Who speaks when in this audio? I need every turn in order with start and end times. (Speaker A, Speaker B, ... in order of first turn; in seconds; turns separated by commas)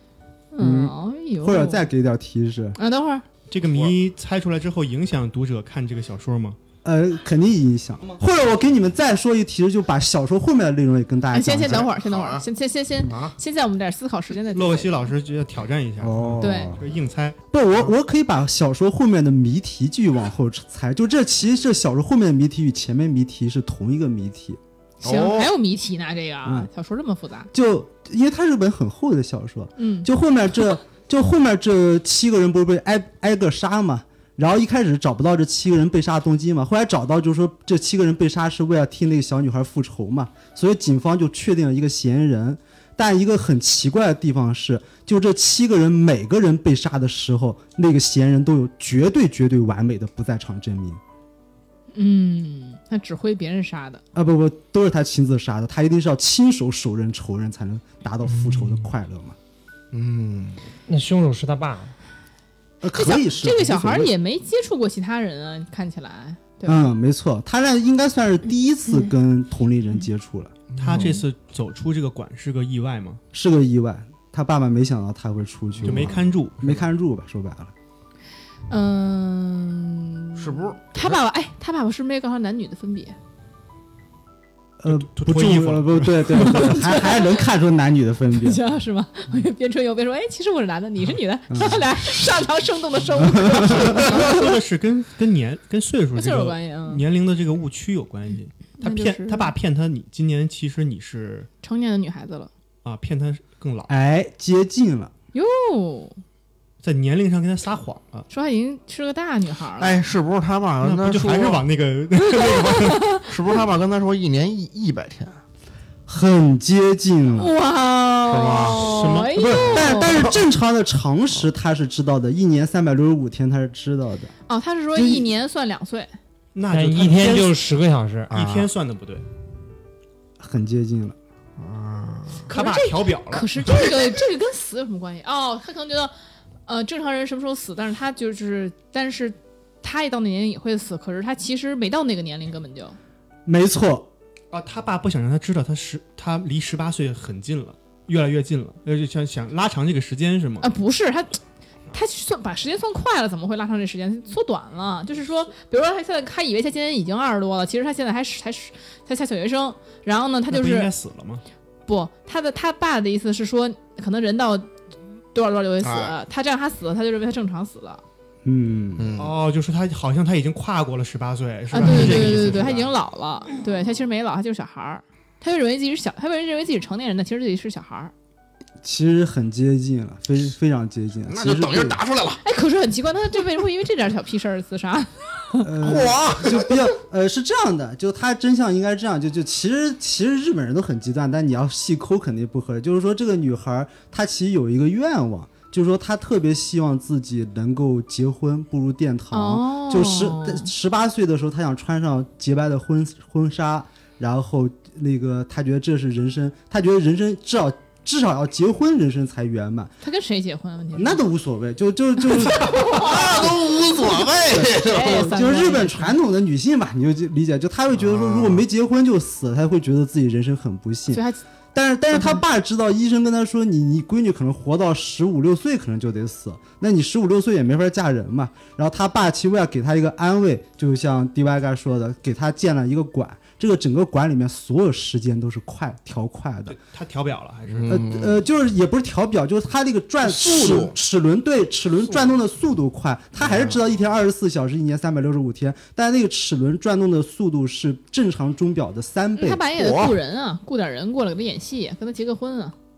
Speaker A: 0.5-1.9, Speaker B: 0.6-2.8, Speaker A: 2.8-3.2, Speaker C: 3.5-6.6, Speaker D: 3.7-3.9, Speaker B: 6.8-11.9, Speaker A: 11.3-15.1, Speaker D: 11.6-12.4, Speaker D: 13.0-13.3, Speaker C: 14.5-17.4, Speaker B: 16.0-16.8, Speaker A: 16.4-16.7, Speaker B: 17.5-24.6, Speaker D: 25.0-25.5, Speaker A: 25.0-27.5, Speaker B: 26.4-26.7, Speaker B: 27.5-51.0, Speaker A: 29.8-30.1, Speaker A: 51.9-54.0, Speaker B: 54.1-59.4, Speaker E: 58.3-58.8, Speaker D: 59.9-60.6, Speaker E: 60.9-61.9, Speaker B: 62.8-64.1, Speaker A: 62.9-66.8, Speaker B: 66.7-70.5, Speaker D: 70.8-71.1, Speaker C: 70.8-73.2, Speaker B: 73.3-77.7, Speaker C: 75.8-76.9, Speaker A: 78.7-83.2, Speaker D: 80.4-81.1, Speaker B: 84.8-88.6, Speaker C: 84.8-86.9, Speaker A: 86.4-87.4, Speaker A: 88.4-94.5, Speaker B: 91.5-91.8, Speaker B: 93.2-93.9, Speaker C: 93.7-101.5, Speaker A: 96.1-97.0, Speaker A: 98.8-99.5, Speaker A: 101.6-102.5, Speaker C: 102.8-103.9, Speaker B: 103.9-105.1, Speaker A: 105.3-106.2, Speaker C: 106.8-108.3, Speaker A: 108.3-110.0, Speaker D: 109.8-111.6, Speaker C: 110.8-113.1, Speaker A: 112.4-113.2, Speaker D: 113.3-115.4, Speaker B: 116.1-117.5, Speaker A: 117.4-120.2, Speaker D: 118.3-119.1, Speaker C: 118.5-119.5, Speaker B: 119.3-124.3, Speaker D: 119.9-120.4, Speaker A: 124.5-126.1, Speaker B: 124.9-125.3, Speaker C: 126.5-127.6, Speaker E: 126.7-128.3, Speaker D: 128.3-128.7, Speaker C: 128.3-129.2, Speaker B: 130.4-131.2, Speaker D: 131.6-132.4, Speaker C: 132.5-133.7, Speaker A: 132.5-136.1, Speaker A: 136.7-143.0, Speaker B: 143.4-144.1, Speaker C: 144.5-150.7, Speaker A: 150.6-151.4, Speaker A: 151.9-160.9, Speaker C: 160.5-161.4, Speaker A: 161.9-164.7, Speaker A: 165.3-168.0, Speaker D: 165.8-166.2, Speaker B: 168.4-169.1, Speaker D: 169.0-169.3, Speaker C: 169.2-172.9, Speaker A: 171.7-178.1, Speaker B: 178.8-182.0, Speaker D: 181.3-182.4, Speaker A: 182.4-185.7, Speaker B: 185.6-209.9, Speaker D: 185.8-186.7, Speaker A: 199.3-200.7, Speaker A: 210.0-211.2, Speaker B: 210.9-213.5, Speaker A: 212.4-213.5, Speaker D: 212.8-215.3, Speaker B: 214.5-221.2, Speaker A: 214.7-216.2, Speaker D: 217.9-218.6, Speaker A: 221.1-221.4, Speaker B: 221.7-236.8, Speaker A: 222.1-222.4, Speaker C: 236.7-238.0, Speaker D: 237.7-238.3, Speaker B: 237.9-249.6, Speaker D: 240.2-240.9, Speaker D: 243.4-243.7, Speaker A: 249.3-252.7, Speaker D: 249.7-250.2